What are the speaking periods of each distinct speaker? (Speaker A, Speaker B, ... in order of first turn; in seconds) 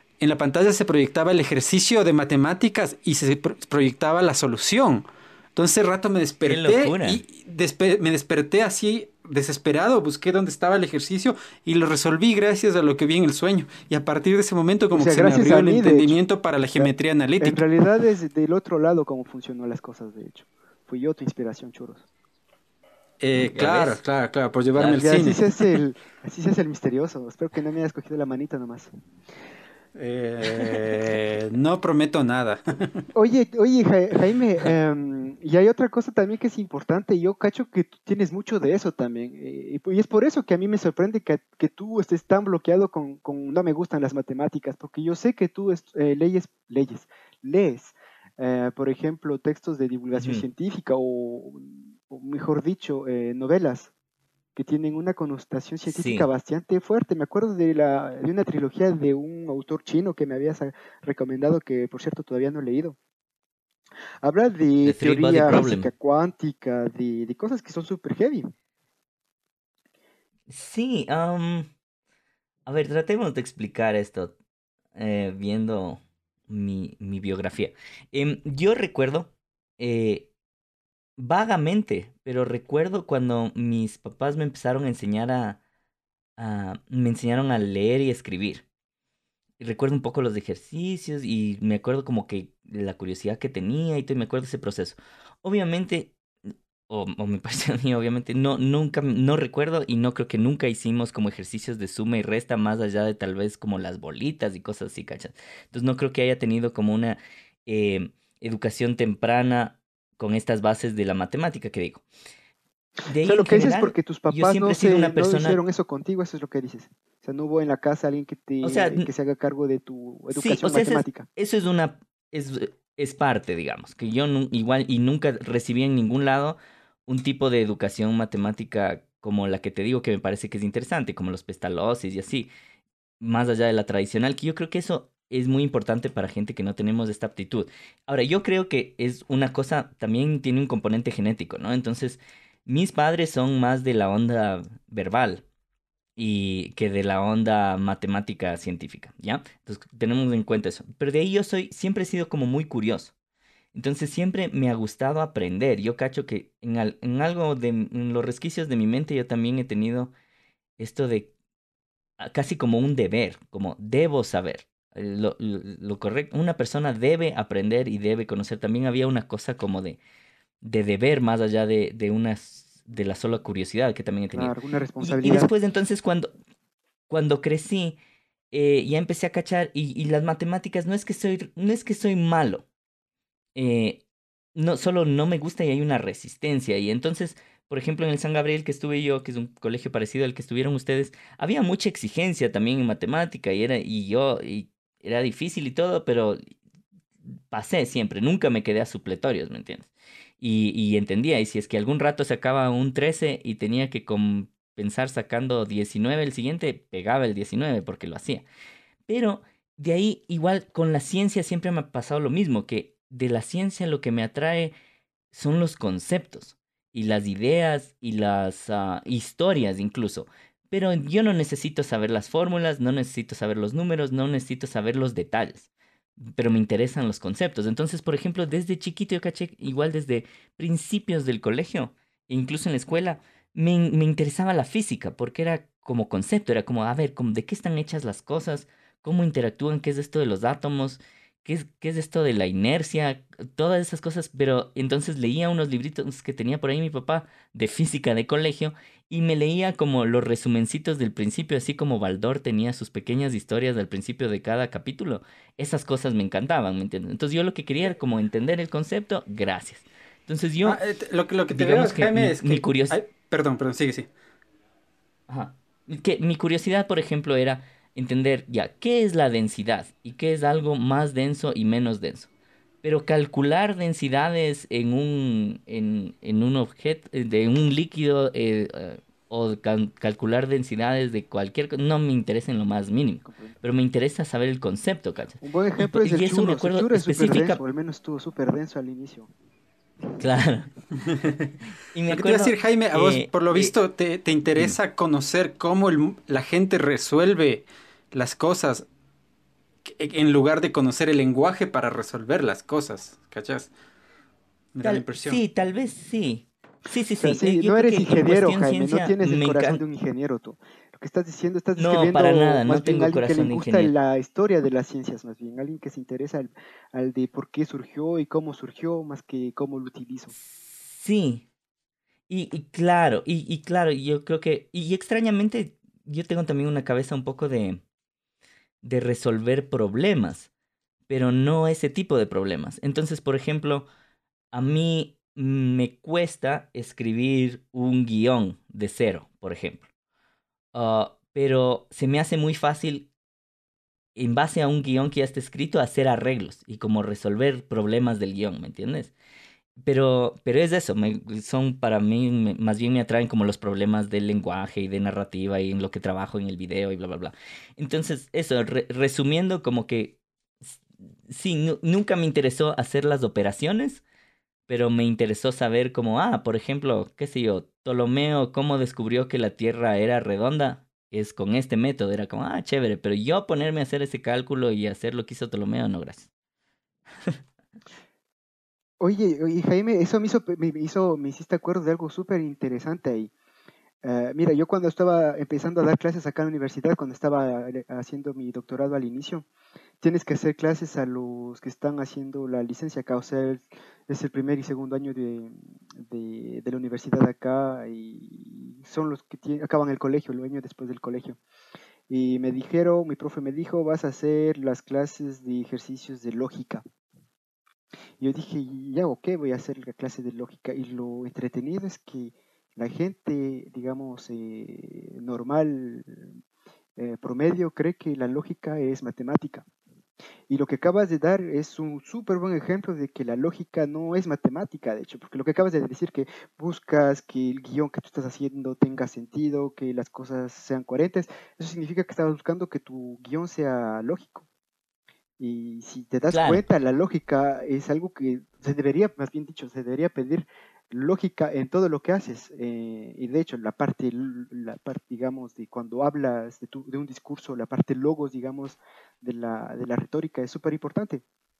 Speaker A: 0.2-5.0, 5.6-17.6, 23.2-25.7, 30.0-33.1, 260.6-264.1, 291.0-291.5, 292.1-298.9, 299.9-303.7, 304.8-305.4
Speaker B: 6.5-7.2, 23.4-24.0, 50.2-50.5, 55.9-56.3, 64.8-65.9, 70.5-71.7, 72.7-74.3, 75.0-80.3, 81.2-85.6, 86.4-88.6, 89.6-96.2, 96.9-112.0, 113.1-115.6, 118.6-119.1, 120.3-132.5, 133.2-145.4, 146.2-153.1, 153.7-160.1, 160.8-161.3, 162.2-170.0, 170.6-176.3, 177.1-178.0, 178.5-182.6, 183.6-184.0, 184.6-196.5, 197.5-208.5, 209.1-214.7, 215.3-260.8, 261.5-263.0, 265.3-272.3, 272.8-287.6, 290.2-290.7, 291.9-293.7, 304.8-309.8, 311.8-313.9, 320.4-321.4, 322.3-327.8, 328.8-330.5, 331.1-333.9, 334.5-339.9, 340.7-343.1, 344.1-349.1, 349.8-364.0, 364.7-376.3, 436.3-436.6
Speaker C: 14.9-16.2, 16.8-22.1, 24.8-28.9, 30.4-30.9, 33.1-53.9, 54.6-63.0, 64.2-68.5, 113.2-121.3, 174.3-175.5, 283.2-283.6, 285.4-289.3, 307.2-320.3, 379.0-383.3, 384.0-389.5, 390.0-401.4, 402.1-406.9, 408.2-416.4, 417.0-419.6, 420.5-434.4, 435.4-451.2